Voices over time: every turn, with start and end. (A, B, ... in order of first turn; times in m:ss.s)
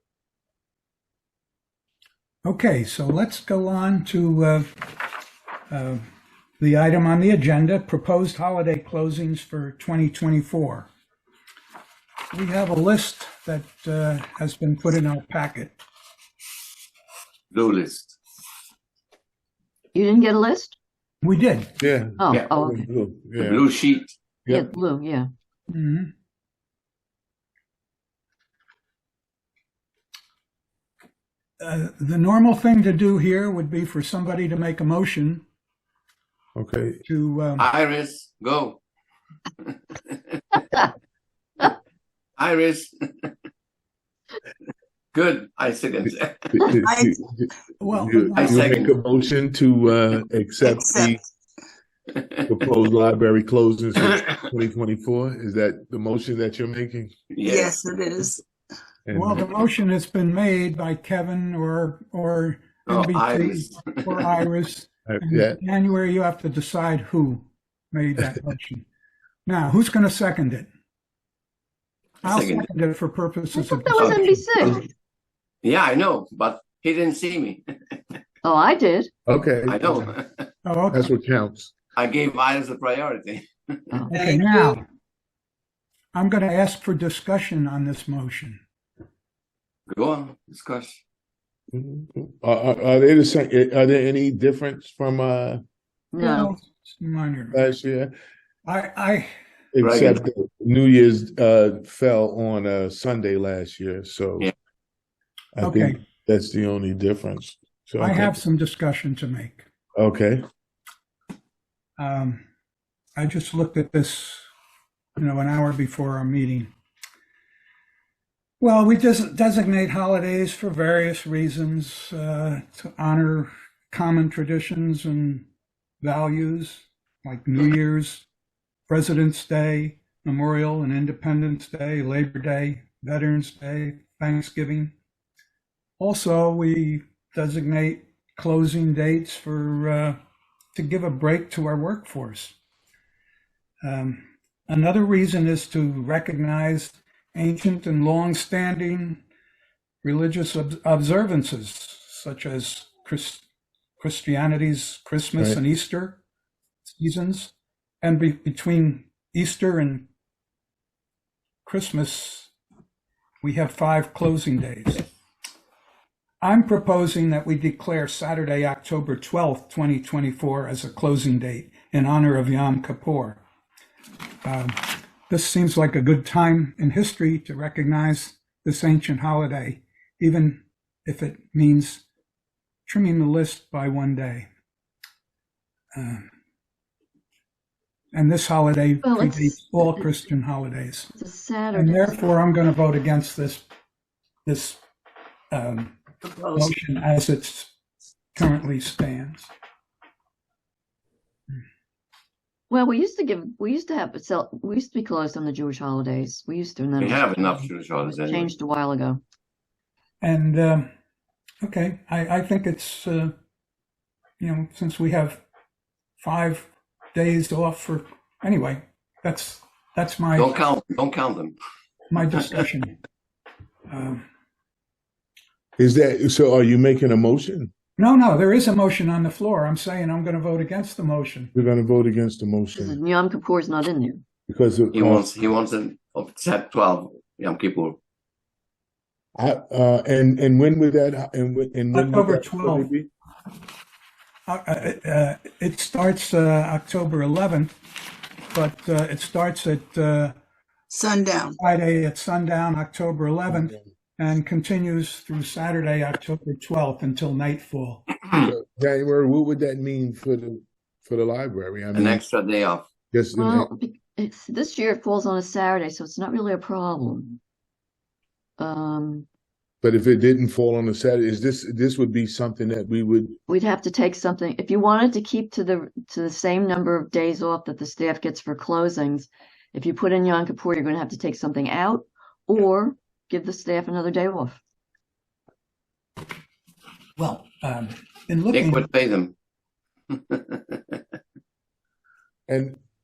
0:02.4-0:04.8 A
0:05.7-0:06.0 A
0:06.6-0:10.9 A
0:12.3-0:15.8 A
0:17.5-0:18.2 B
0:19.9-0:20.8 C
0:21.2-0:21.8 A
0:21.8-0:23.6 D
0:22.2-0:22.9 C
0:23.4-0:24.1 B
0:24.5-0:25.3 C
0:25.7-0:26.1 A
0:31.6-0:35.4 A
0:36.6-0:37.0 D
0:37.1-0:37.7 A
0:37.6-0:38.8 B
0:39.6-0:40.2 B
0:42.4-0:43.3 B
0:45.1-0:46.7 B
0:46.5-0:51.2 D
0:46.7-0:47.2 E
0:47.8-0:48.8 A
0:48.4-0:48.9 B
0:50.6-0:51.2 E
0:52.5-0:57.1 D
0:57.3-0:57.8 B
0:57.4-0:58.4 E
0:59.1-0:59.5 D
0:59.1-1:08.9 A
1:02.9-1:04.2 B
1:05.1-1:05.6 D
1:09.5-1:10.7 A
1:12.2-1:12.7 B
1:12.2-1:14.8 A
1:13.5-1:14.8 C
1:14.0-1:14.8 B
1:15.6-1:18.0 B
1:18.4-1:19.1 C
1:19.3-1:20.2 D
1:19.7-1:20.4 B
1:20.6-1:21.1 A
1:20.9-1:21.7 D
1:22.0-1:24.0 B
1:24.1-1:24.8 E
1:24.1-1:24.8 A
1:26.1-1:28.6 A
1:29.9-1:31.0 B
1:31.7-1:35.6 D
1:36.1-1:36.5 C
1:36.2-1:37.6 A
1:37.5-1:38.1 D
1:38.7-1:39.3 A
1:39.7-1:44.5 D
1:39.8-1:40.2 B
1:45.6-1:48.4 D
1:45.6-1:46.0 A
1:48.0-1:49.6 A
1:50.0-1:50.4 D
1:52.0-1:52.4 A
1:53.2-1:54.4 A
1:55.2-1:56.7 A
1:58.6-2:05.5 A
2:06.0-2:08.3 A
2:08.9-2:14.9 A
2:16.0-2:20.2 A
2:20.7-2:22.6 A
2:23.8-2:29.2 A
2:30.0-2:33.4 A
2:34.0-2:36.2 A
2:36.8-2:40.1 A
2:41.6-2:42.5 A
2:43.4-2:45.1 A
2:46.4-2:53.4 A
2:54.4-3:02.0 A
3:02.9-3:04.5 A
3:05.9-3:06.3 A
3:08.1-3:11.2 A
3:09.0-3:10.0 C
3:11.2-3:12.2 C
3:11.7-3:13.6 A
3:14.5-3:14.8 A
3:15.5-3:16.0 A
3:16.5-3:17.7 A
3:18.4-3:19.5 A
3:22.7-3:29.2 C
3:27.0-3:28.5 B
3:30.2-3:30.9 A
3:31.6-3:33.3 A
3:34.4-3:35.4 A
3:36.2-3:40.7 A
3:40.4-3:41.6 B
3:42.1-3:43.0 A
3:43.9-3:44.2 A
3:45.8-3:47.7 D
3:48.0-3:51.5 A
3:51.6-3:53.0 D
3:52.8-3:54.2 C
3:54.5-3:55.3 D
3:54.9-3:58.0 B
3:59.4-4:03.1 D
4:01.9-4:02.9 A
4:04.5-4:07.7 A
4:08.5-4:10.4 A
4:10.9-4:11.6 E
4:11.6-4:18.1 A
4:18.4-4:22.2 D
4:21.9-4:22.9 B
4:23.1-4:23.7 D
4:23.4-4:27.4 C
4:28.6-4:29.3 C
4:29.8-4:33.4 D
4:33.5-4:44.6 C
4:47.2-4:48.9 A
4:48.5-4:49.3 B
4:50.1-4:51.0 B
4:52.5-4:52.8 D